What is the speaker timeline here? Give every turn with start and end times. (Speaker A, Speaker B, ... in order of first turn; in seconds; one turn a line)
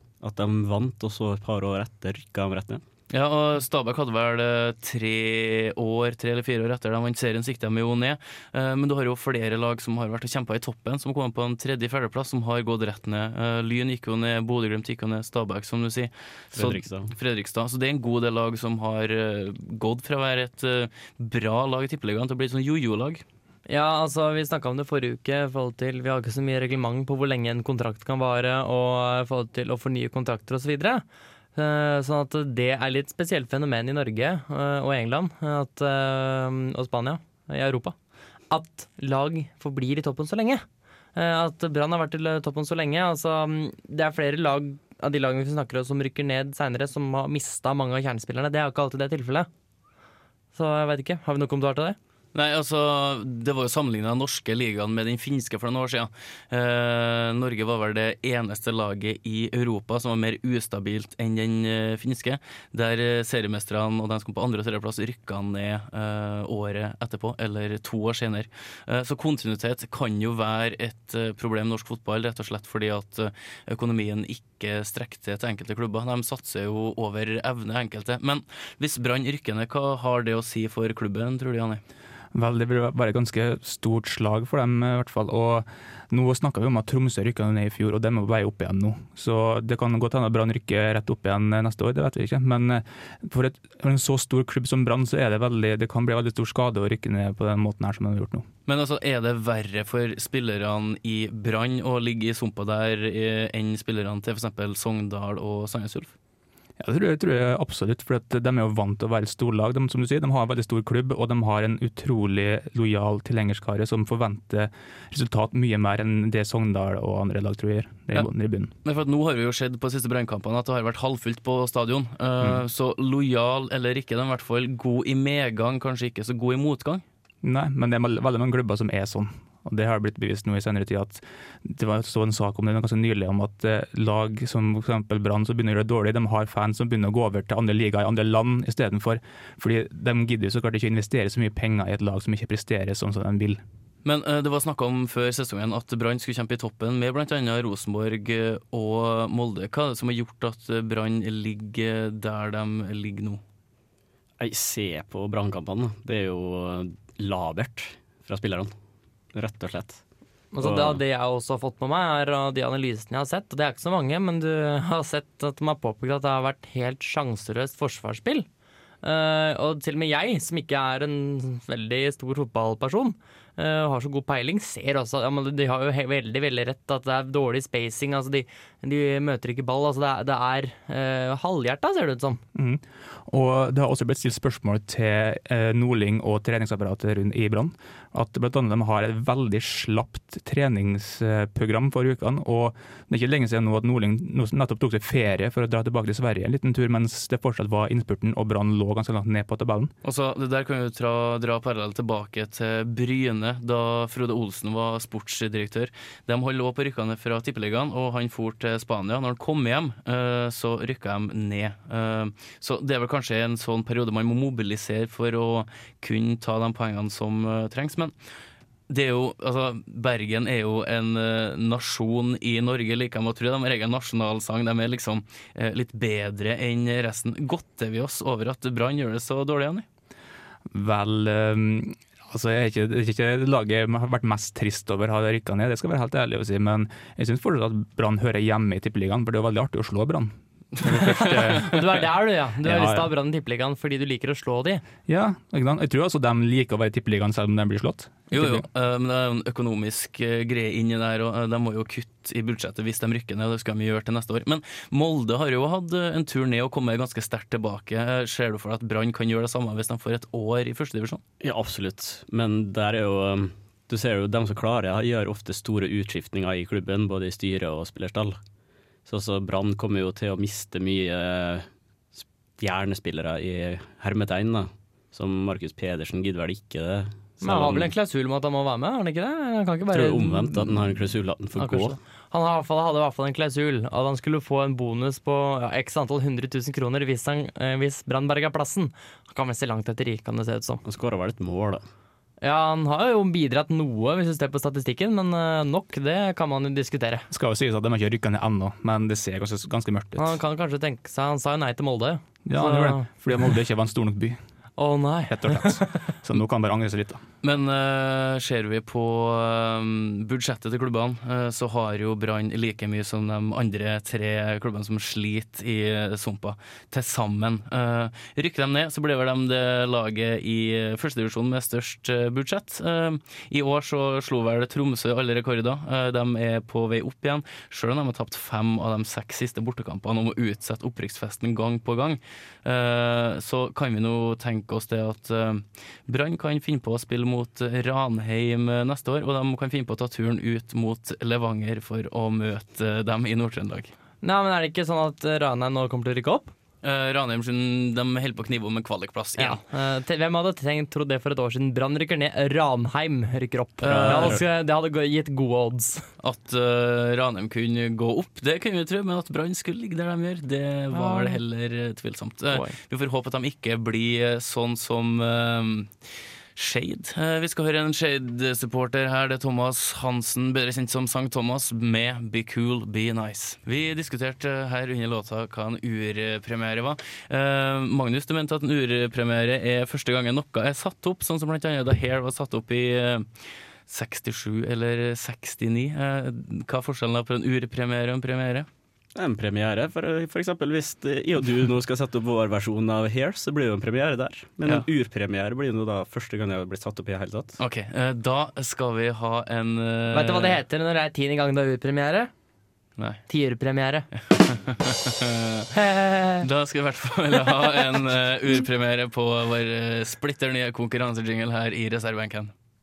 Speaker A: 0.2-2.8
Speaker B: 3.1-23.2
Speaker A: 16.5-17.1
Speaker C: 23.7-31.0
Speaker C: 31.6-38.0
Speaker C: 38.5-40.6
Speaker C: 41.1-49.5
Speaker C: 50.5-52.0
Speaker B: 52.3-81.8
Speaker D: 82.3-98.5
Speaker B: 98.7-106.1
Speaker D: 106.8-118.7
Speaker B: 118.8-127.0
Speaker D: 127.4-143.6
Speaker B: 144.1-153.4
Speaker A: 154.4-158.7
Speaker A: 159.3-160.0
Speaker C: 160.5-168.5
Speaker A: 160.6-161.0
Speaker C: 169.0-182.4
Speaker D: 182.6-199.9
Speaker B: 200.0-218.1
Speaker B: 218.9-229.8
Speaker D: 230.7-242.0
Speaker C: 241.0-244.8
Speaker D: 242.6-243.1
Speaker D: 245.1-248.7
Speaker B: 248.3-261.2
Speaker A: 261.4-268.4
Speaker A: 269.1-271.7
Speaker A: 272.2-277.9
Speaker C: 277.4-280.7
Speaker A: 279.9-282.0
Speaker C: 281.6-290.8
Speaker A: 290.9-291.8
Speaker C: 292.4-297.3
Speaker D: 297.3-300.4
Speaker C: 300.2-303.1
Speaker D: 302.5-304.4
Speaker C: 304.8-305.9
Speaker D: 305.3-307.2
Speaker B: 307.4-343.9
Speaker C: 344.2-346.5
Speaker B: 346.8-349.6
Speaker C: 349.4-356.0
Speaker B: 353.8-354.4
Speaker A: 353.9-354.4
Speaker B: 356.2-365.9
Speaker C: 360.9-361.4
Speaker B: 366.6-383.3
Speaker B: 383.9-388.7
Speaker A: 389.1-397.6
Speaker B: 397.6-400.6
Speaker C: 400.1-402.3
Speaker C: 403.3-404.1
Speaker B: 404.3-405.7
Speaker C: 405.7-406.5
Speaker B: 406.4-412.5